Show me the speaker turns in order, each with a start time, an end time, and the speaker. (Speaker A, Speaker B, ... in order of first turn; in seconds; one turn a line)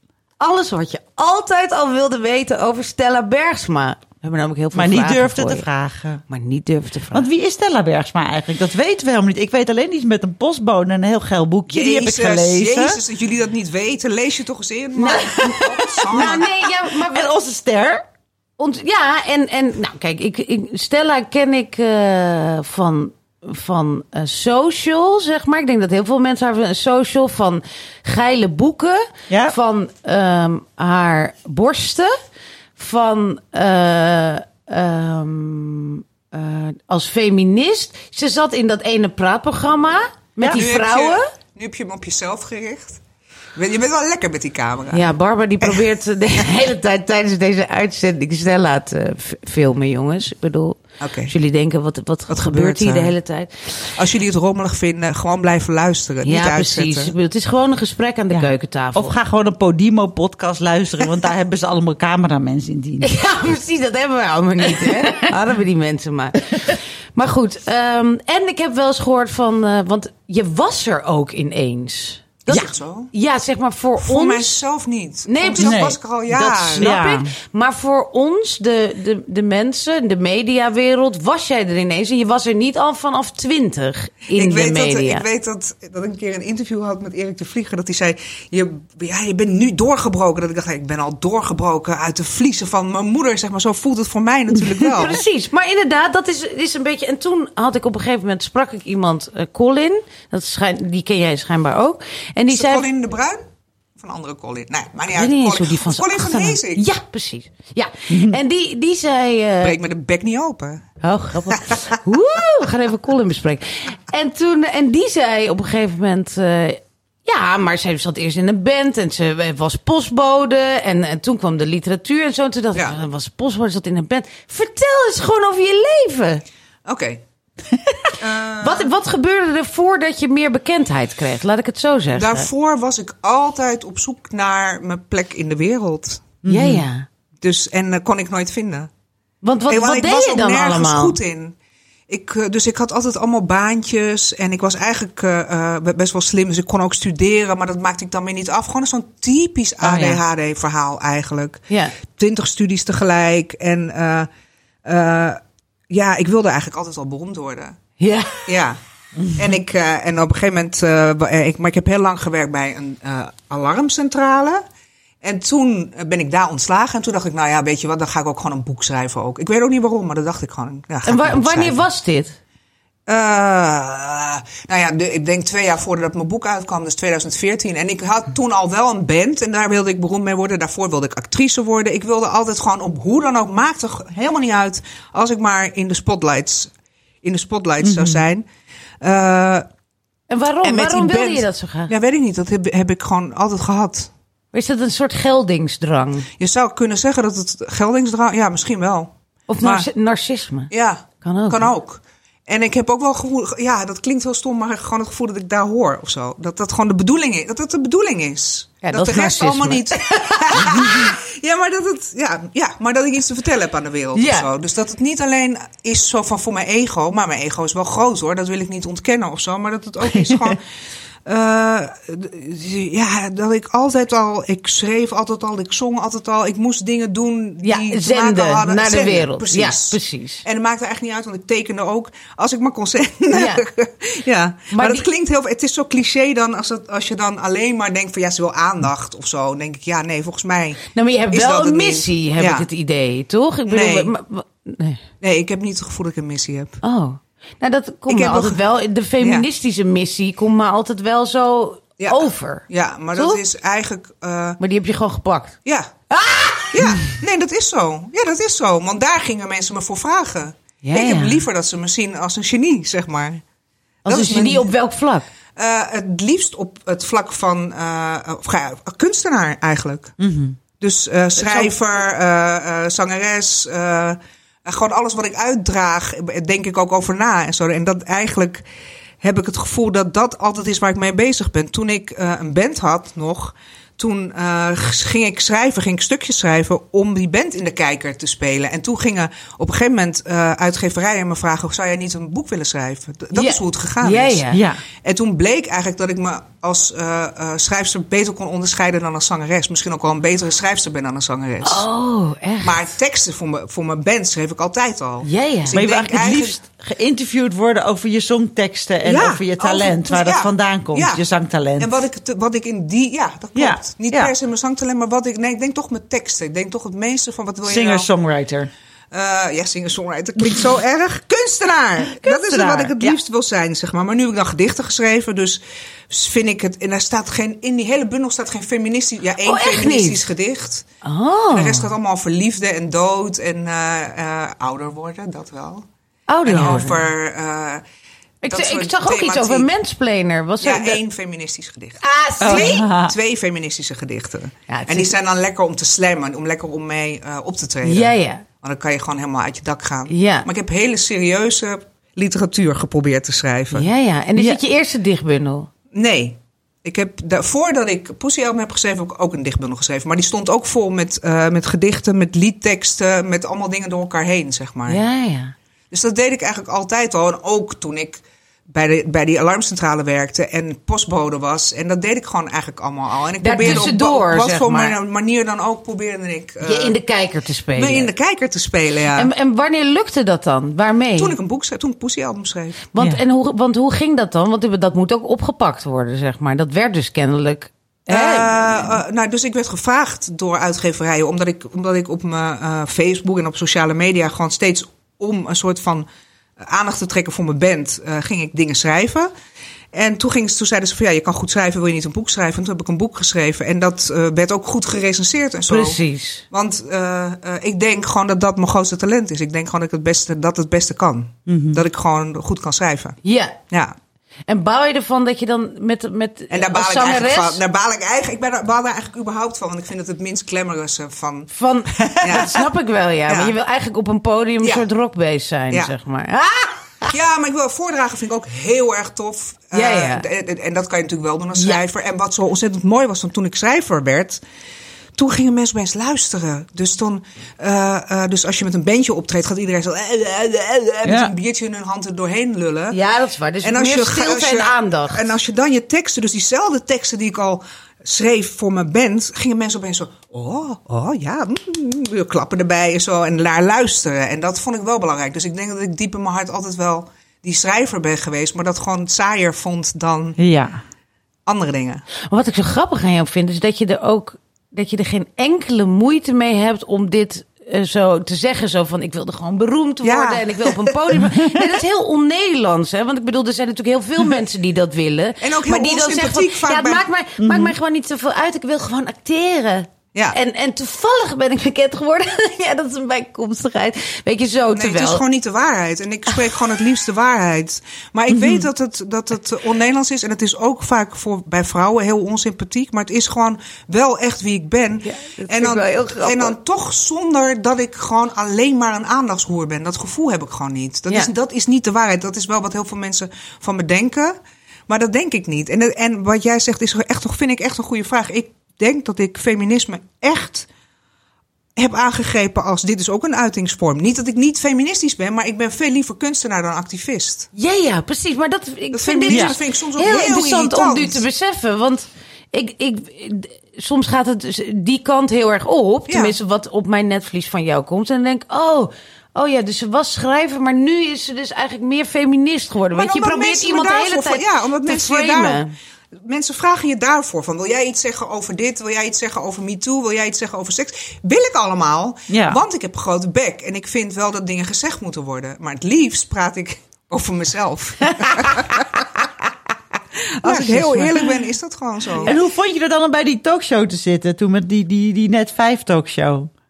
Speaker A: 0.4-5.7
Speaker B: 4.7-6.2
Speaker A: 6.3-7.3
Speaker B: 7.1-13.0
Speaker C: 11.7-16.5
Speaker A: 15.0-17.3
Speaker B: 15.1-16.5
Speaker B: 17.1-18.0
Speaker A: 18.6-32.2
Speaker B: 29.3-29.5
Speaker A: 32.8-41.3
Speaker C: 40.4-43.0
Speaker C: 43.5-45.1
Speaker A: 44.9-54.0
Speaker C: 51.0-51.3
Speaker C: 52.3-53.1
Speaker C: 53.9-57.1
Speaker A: 56.2-59.1
Speaker B: 58.3-63.2
Speaker A: 63.0-74.6
Speaker C: 72.5-73.1
Speaker C: 74.0-76.9
Speaker A: 75.3-85.2
Speaker B: 75.6-77.3
Speaker C: 84.3-95.2
Speaker A: 94.9-102.8
Speaker C: 102.5-103.4
Speaker C: 104.0-106.8
Speaker A: 105.1-109.8
Speaker B: 108.1-108.4
Speaker C: 109.6-110.9
Speaker A: 111.0-126.4
Speaker C: 111.5-112.0
Speaker C: 126.8-127.2
Speaker C: 128.2-128.9
Speaker A: 128.6-132.5
Speaker C: 132.1-136.4
Speaker B: 136.4-136.8
Speaker A: 136.5-137.1
Speaker C: 137.4-138.9
Speaker A: 139.4-141.2
Speaker C: 139.7-141.5
Speaker C: 142.1-154.3
Speaker B: 149.8-150.2
Speaker A: 151.7-152.0
Speaker C: 154.8-157.8
Speaker A: 158.0-158.5
Speaker C: 158.4-158.8
Speaker C: 159.3-164.6
Speaker C: 165.2-171.8
Speaker A: 171.1-172.3
Speaker C: 173.1-186.7
Speaker C: 187.2-188.4
Speaker B: 187.8-188.2
Speaker C: 189.0-189.7
Speaker A: 190.3-191.9
Speaker C: 190.6-194.1
Speaker A: 194.5-196.3
Speaker C: 196.4-199.9
Speaker A: 199.5-200.7
Speaker C: 200.7-220.6
Speaker A: 201.2-201.7
Speaker A: 208.8-211.1
Speaker A: 214.2-214.5
Speaker B: 220.1-220.5
Speaker C: 221.2-242.7
Speaker A: 227.6-230.4
Speaker A: 233.3-233.6
Speaker A: 234.7-235.0
Speaker A: 240.9-245.0
Speaker C: 243.7-244.1
Speaker C: 245.2-246.8
Speaker A: 246.8-253.4
Speaker C: 248.1-248.6
Speaker C: 249.2-249.4
Speaker C: 252.0-254.6
Speaker A: 254.6-255.5
Speaker C: 255.6-255.9
Speaker A: 256.1-257.1
Speaker C: 256.7-263.4
Speaker A: 260.8-261.4
Speaker A: 264.1-265.2
Speaker C: 264.1-264.7
Speaker C: 265.6-270.1
Speaker B: 270.2-270.6
Speaker C: 270.8-278.6
Speaker A: 271.4-271.7
Speaker C: 279.2-294.4
Speaker A: 293.3-294.6
Speaker B: 294.5-294.8
Speaker C: 295.0-301.8
Speaker A: 301.6-302.7
Speaker C: 302.6-306.5
Speaker A: 305.2-305.7
Speaker B: 305.7-311.9
Speaker C: 309.0-311.2
Speaker C: 311.8-318.1
Speaker B: 313.5-314.3
Speaker B: 317.6-318.7
Speaker C: 319.1-330.9
Speaker B: 322.2-323.2
Speaker A: 329.4-330.3
Speaker A: 331.0-331.9
Speaker C: 331.5-335.9
Speaker A: 336.3-337.0
Speaker C: 336.4-337.8
Speaker A: 338.4-341.0
Speaker C: 338.5-339.7
Speaker C: 340.6-353.9
Speaker A: 342.0-342.8
Speaker B: 342.4-343.1
Speaker A: 344.7-345.1
Speaker A: 347.8-348.4
Speaker A: 350.1-350.4
Speaker A: 353.7-355.7
Speaker C: 355.9-365.0
Speaker A: 364.9-365.5
Speaker C: 365.9-376.9
Speaker A: 373.4-374.9
Speaker A: 376.6-378.1
Speaker C: 377.7-379.3
Speaker A: 379.1-381.4
Speaker C: 381.2-382.8
Speaker A: 382.9-388.9
Speaker C: 388.1-396.1
Speaker C: 396.6-399.3
Speaker C: 399.9-406.0
Speaker A: 405.7-406.4
Speaker C: 406.5-413.2
Speaker B: 411.5-411.8
Speaker A: 413.2-413.6
Speaker A: 414.5-417.6
Speaker C: 416.5-422.7
Speaker A: 421.5-427.1
Speaker C: 423.3-423.5
Speaker C: 427.1-434.4
Speaker A: 429.7-430.2
Speaker C: 435.1-443.0
Speaker B: 441.0-441.3
Speaker A: 442.9-445.3
Speaker C: 443.6-460.4
Speaker B: 460.4-460.8
Speaker C: 461.4-462.0
Speaker A: 462.3-485.2
Speaker C: 470.0-470.9
Speaker B: 471.2-471.6
Speaker C: 475.4-477.1
Speaker B: 477.4-477.7
Speaker C: 484.7-504.4
Speaker B: 488.3-488.7
Speaker A: 495.0-496.5
Speaker C: 504.9-510.7
Speaker C: 511.8-517.5
Speaker A: 517.5-535.7
Speaker C: 518.9-521.2
Speaker C: 526.1-526.3
Speaker C: 532.9-535.6
Speaker C: 536.2-549.0
Speaker B: 542.3-542.6
Speaker B: 548.1-548.7
Speaker C: 550.4-552.3
Speaker B: 550.4-551.4
Speaker B: 552.2-556.5